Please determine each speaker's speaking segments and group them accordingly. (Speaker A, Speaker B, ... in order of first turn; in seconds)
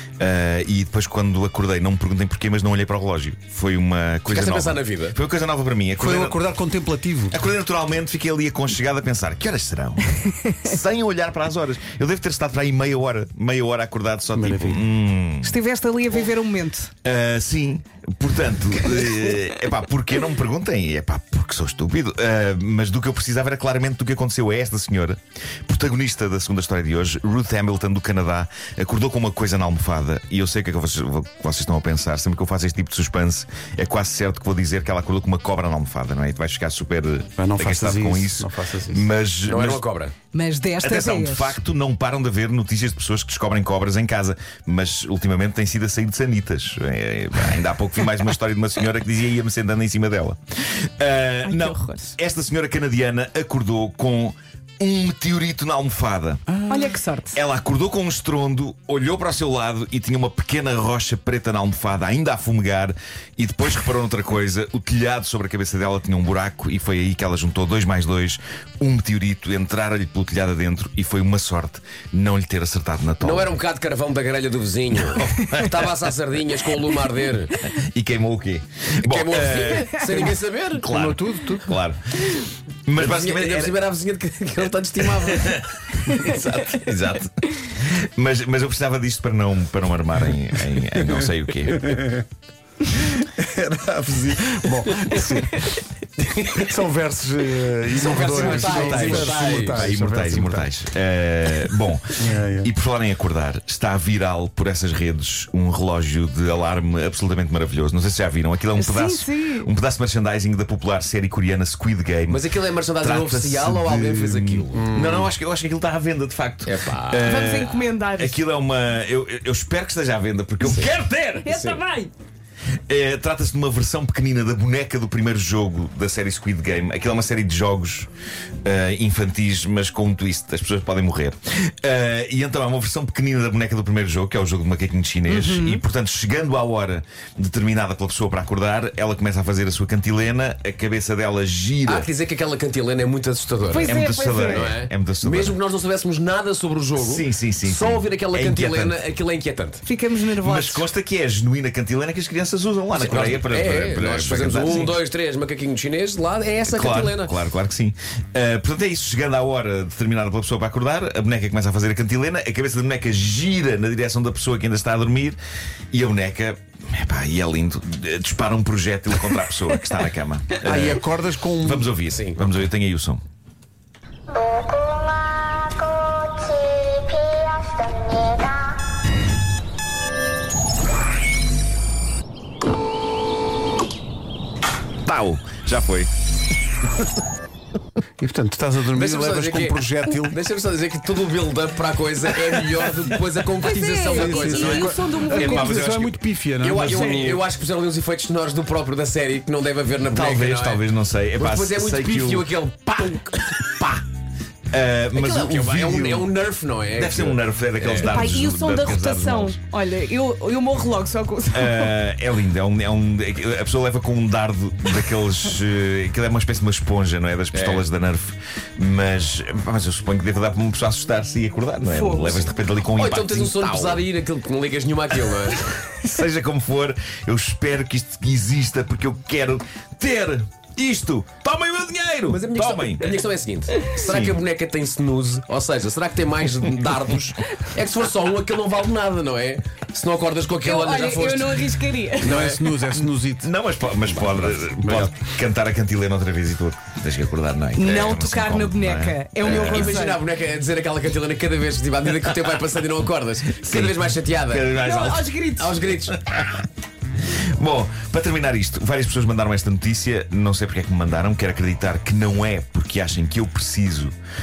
Speaker A: 0.2-6.4, 7.3-15.6, 17.0-39.8, 40.8-56.6, 57.3-73.5, 75.1-75.9, 77.6-82.3, 82.9-83.8, 85.2-92.0, 98.8-121.6, 122.9-128.1, 128.6-142.1, 143.8-145.6, 146.9-149.0, 150.4-155.0, 156.6-165.4, 165.9-171.1, 171.6-173.2, 185.1-186.1, 195.2-197.4, 200.1-202.5, 204.7-206.3, 206.9-209.6, 211.5-224.1, 225.9-233.1, 234.1-234.4, 242.9-249.9, 253.6-255.5, 256.1-256.6, 257.6-264.1
Speaker B: 4.3-5.2, 39.5-40.1, 73.2-77.6, 79.0-80.8, 83.0-86.4, 94.9-95.4, 96.2-96.7, 97.9-99.9, 112.3-114.9, 116.7-117.5, 120.6-120.9, 121.5-121.8, 141.9-149.8, 152.9-157.3, 172.1-172.5, 188.9-195.0, 196.6-200.8, 201.4-204.0, 205.1-208.3, 217.5-217.9, 222.9-225.7, 232.3-242.7, 249.4-254.8, 255.6-256.2
Speaker C: 6.0-7.4, 14.3-14.8, 37.4-39.1, 80.8-81.8, 91.7-92.2, 93.0-95.7, 96.6-100.7, 102.2-102.7, 114.7-115.3, 170.6-171.9, 188.2-190.4, 194.1-197.3, 242.2-243.5, 244.1-245.2
Speaker D: 15.4-16.9, 40.3-41.6, 51.4-52.1, 56.7-57.3, 108.8-109.7, 117.2-118.4, 121.4-122.1, 135.3-135.8, 143.7-144.7, 149.9-150.9, 193.6-195.7, 208.0-211.7, 221.9-222.5, 240.6-242.4, 247.8-250.2, 254.8-255.7